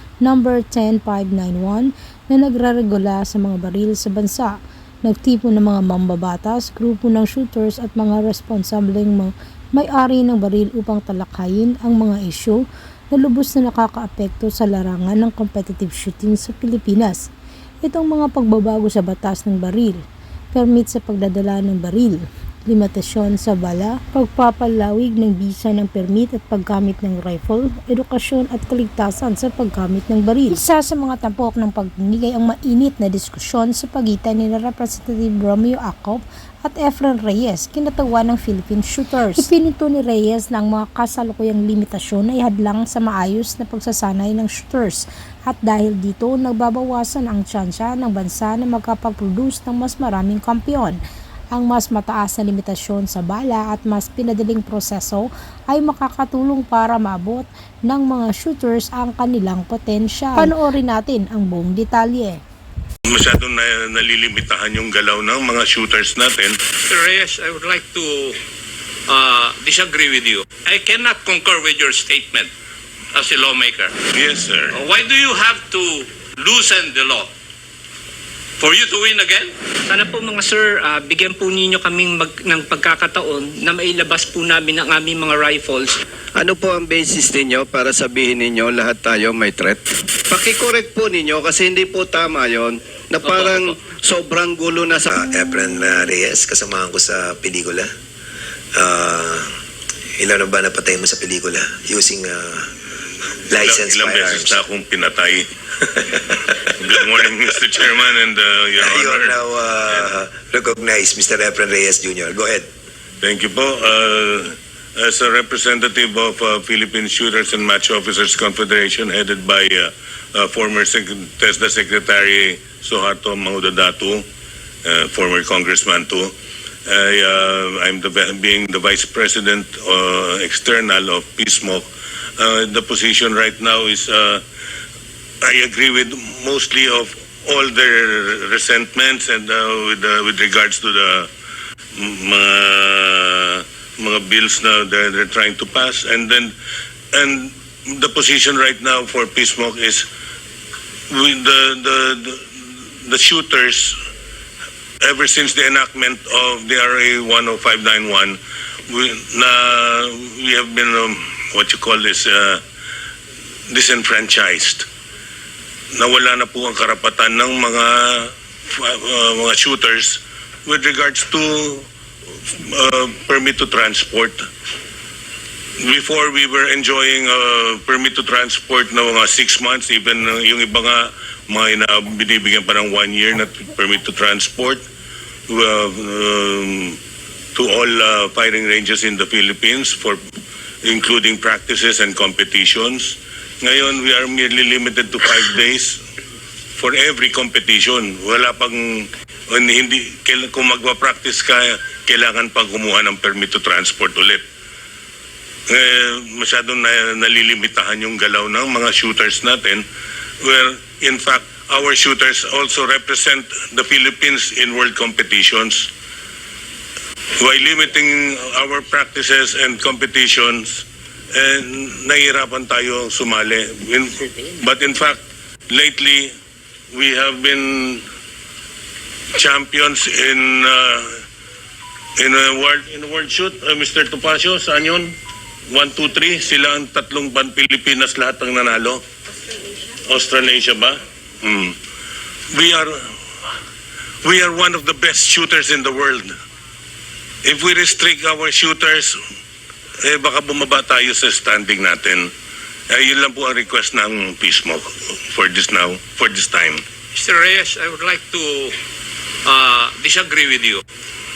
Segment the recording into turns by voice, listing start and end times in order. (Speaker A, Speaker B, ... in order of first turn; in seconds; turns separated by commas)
Speaker A: 0.2-4.5, Speaker A: 5.0-12.6, Speaker A: 13.1-17.2, Speaker A: 17.8-20.0, Speaker A: 20.5-51.0, Speaker A: 51.5-62.4, Speaker B: 63.0-66.6, Speaker C: 66.9-68.3, Speaker C: 69.1-72.5, Speaker C: 73.2-73.9, Speaker B: 74.1-74.8, Speaker C: 74.9-77.2, Speaker C: 78.6-79.5, Speaker D: 79.9-86.0, Speaker E: 86.4-95.1, Speaker F: 95.1-97.9, Speaker F: 98.8-99.5, Speaker F: 100.2-102.7, Speaker F: 103.5-104.6, Speaker B: 103.6-106.0, Speaker B: 106.8-109.3, Speaker F: 108.8-112.7, Speaker B: 113.2-124.2, Speaker B: 124.8-126.3, Speaker B: 126.9-131.9, Speaker B: 132.4-134.4, Speaker B: 135.4-141.3, Speaker B: 142.0-146.6, Speaker B: 147.1-150.1, Speaker B: 151.1-152.5, Speaker B: 153.0-153.9, Speaker B: 155.0-158.4, Speaker B: 158.9-162.6, Speaker B: 163.7-164.9, Speaker B: 165.9-171.9, Speaker B: 172.5-174.4, Speaker B: 175.8-184.8, Speaker B: 185.5-187.0, Speaker B: 187.6-190.2, Speaker B: 190.8-196.0, Speaker B: 196.8-204.4, Speaker B: 205.7-209.8, Speaker B: 210.4-215.9, Speaker B: 217.4-226.3, Speaker B: 226.9-228.0, Speaker B: 229.4-231.1, Speaker B: 232.2-235.1, Speaker B: 235.7-239.0, Speaker B: 240.1-241.8, Speaker B: 242.5-242.9, Speaker B: 244.2-246.3, Speaker B: 247.4-249.2, Speaker B: 250.0-252.3, Speaker B: 252.9-256.8, Speaker C: 257.2-258.7, Speaker C: 259.5-260.8